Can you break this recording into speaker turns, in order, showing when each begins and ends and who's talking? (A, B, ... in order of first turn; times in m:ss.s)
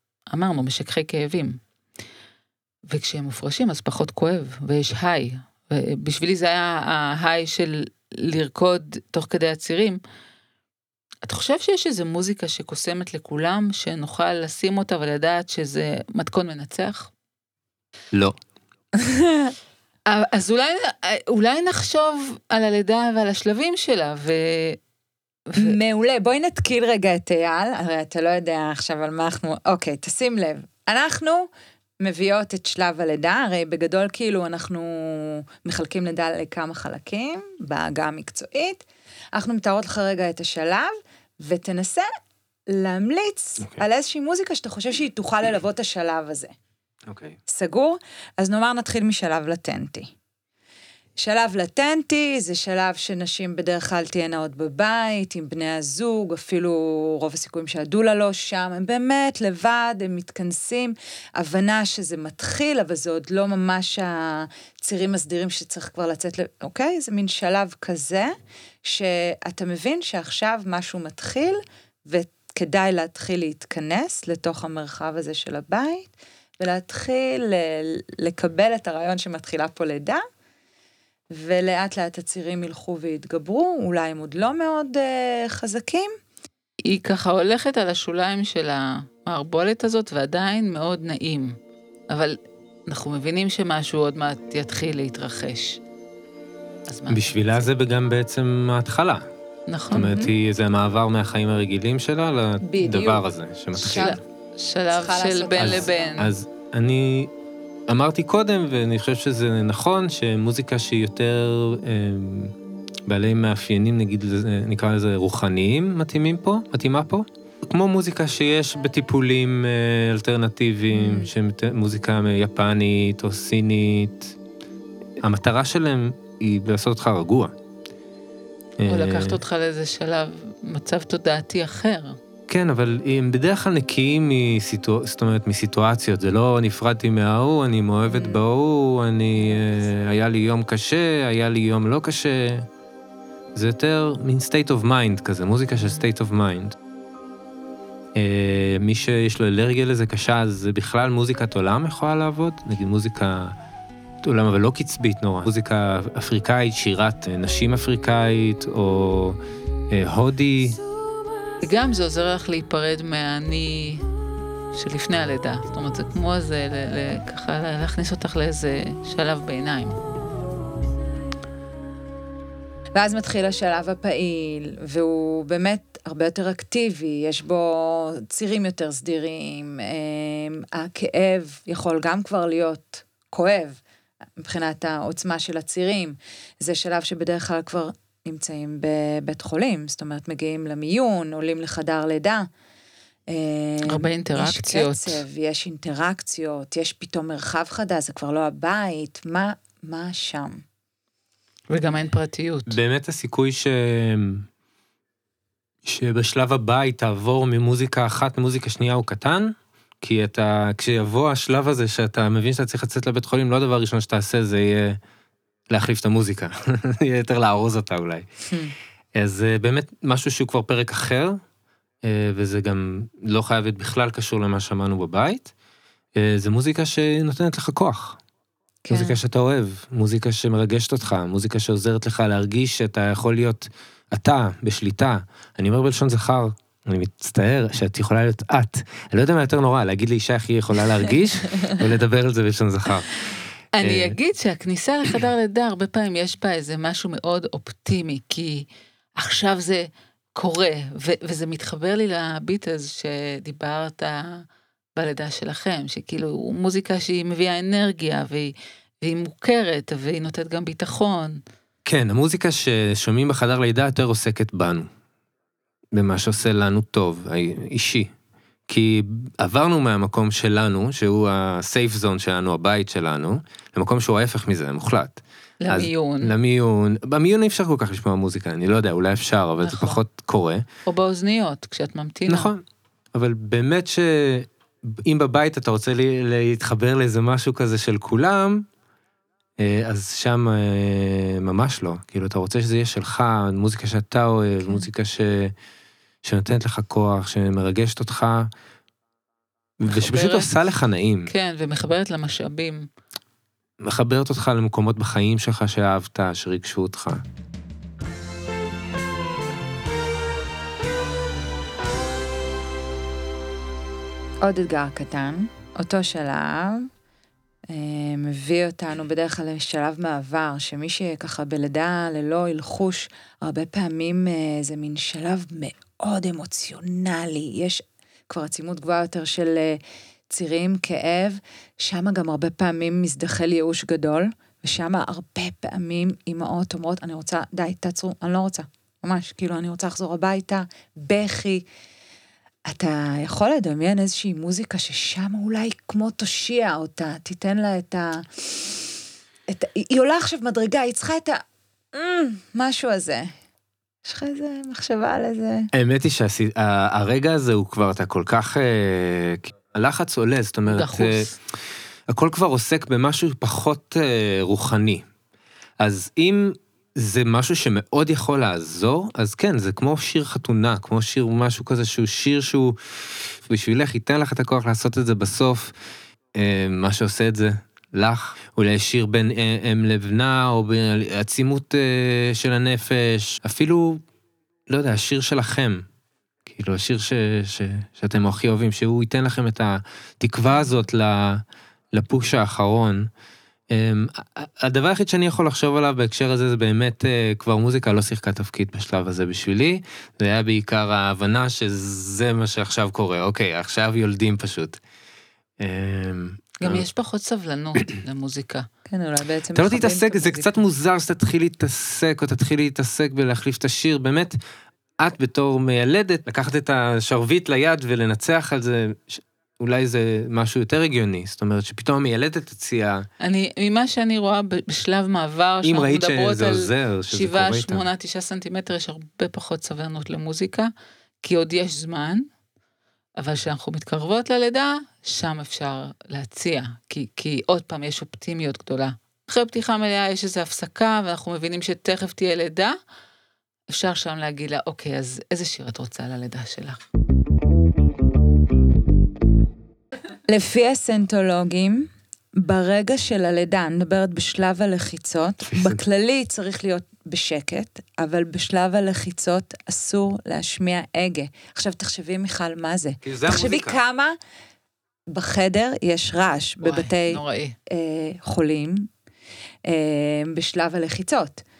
0:00.3-0:01.6 A
0:02.9-0:10.0 A
0:11.2-0:17.1 A
0:19.0-0:19.5 B
0:20.1-0:24.8 A
0:25.5-0:25.8 A
0:25.6-0:31.5 B
0:32.0-0:42.1 B
0:42.7-0:46.5 B
0:47.1-0:47.4 C
0:47.5-0:50.1 B
0:51.2-1:08.3 B
1:08.8-1:20.2 B
1:21.3-1:26.1 B
1:26.8-1:31.6 A
1:32.1-1:35.8 A
1:36.9-1:37.7 A
1:37.1-1:39.3 C
1:39.7-1:40.1 A
1:39.9-1:40.3 B
1:39.9-1:44.2 C
1:42.6-1:44.2 B
1:43.9-1:46.4 A
1:44.9-1:46.2 B
1:45.6-1:47.3 C
1:47.9-1:52.5 C
1:53.1-2:04.4 C
2:00.9-2:01.3 B
2:05.2-2:07.5 C
2:08.8-2:09.4 C
2:08.9-2:12.2 A
2:12.5-2:22.7 C
2:18.1-2:18.4 B
2:23.6-2:26.8 C
2:28.2-2:33.6 C
2:34.2-2:39.4 C
2:39.9-2:40.8 C
2:41.6-2:44.0 A
2:44.7-2:50.0 A
2:53.0-3:03.8 B
3:04.4-3:12.5 B
3:13.3-3:20.6 B
3:13.8-3:15.2 A
3:21.7-3:22.8 A
3:22.7-3:24.5 C
3:25.8-3:35.0 C
3:35.7-3:38.5 C
3:39.2-3:41.4 C
3:42.0-3:45.5 C
3:46.2-3:48.2 C
3:48.8-3:49.2 B
3:48.9-4:03.1 C
4:03.7-4:14.4 A
4:03.8-4:04.2 C
4:15.0-4:21.4 A
4:21.8-4:24.9 C
4:25.9-4:28.1 C
4:28.7-4:40.7 C
4:35.6-4:36.3 A
4:39.6-4:40.0 A
4:40.9-4:42.5 A
4:42.3-4:42.6 C
4:43.1-4:48.7 C
4:49.6-4:55.6 C
4:56.2-4:58.5 C
4:59.8-5:01.3 C
4:59.9-5:00.5 A
5:01.3-5:02.9 A
5:03.8-5:07.2 C
5:14.4-5:16.9 B
5:17.7-5:41.7 B
5:42.7-5:48.9 B
5:49.5-5:53.3 B
5:54.0-5:55.7 B
5:55.7-6:01.3 C
6:00.7-6:01.4 A
6:02.1-6:05.0 C
6:05.8-6:15.7 C
6:16.3-6:24.0 C
6:24.7-6:25.9 C
6:26.5-6:33.1 C
6:33.7-6:44.8 C
6:45.6-6:46.8 C
6:46.6-6:48.7 A
6:48.9-6:50.6 B
6:49.5-6:54.4 C
6:55.0-7:03.1 C
7:03.2-7:10.7 A
7:05.6-7:07.8 C
7:11.2-7:12.3 A
7:13.2-7:22.8 A
7:23.7-7:26.8 A
7:30.3-7:44.2 B
7:35.5-7:35.8 C
7:43.0-7:43.8 C
7:45.1-7:48.9 B
7:46.6-7:47.6 A
7:49.7-7:51.4 B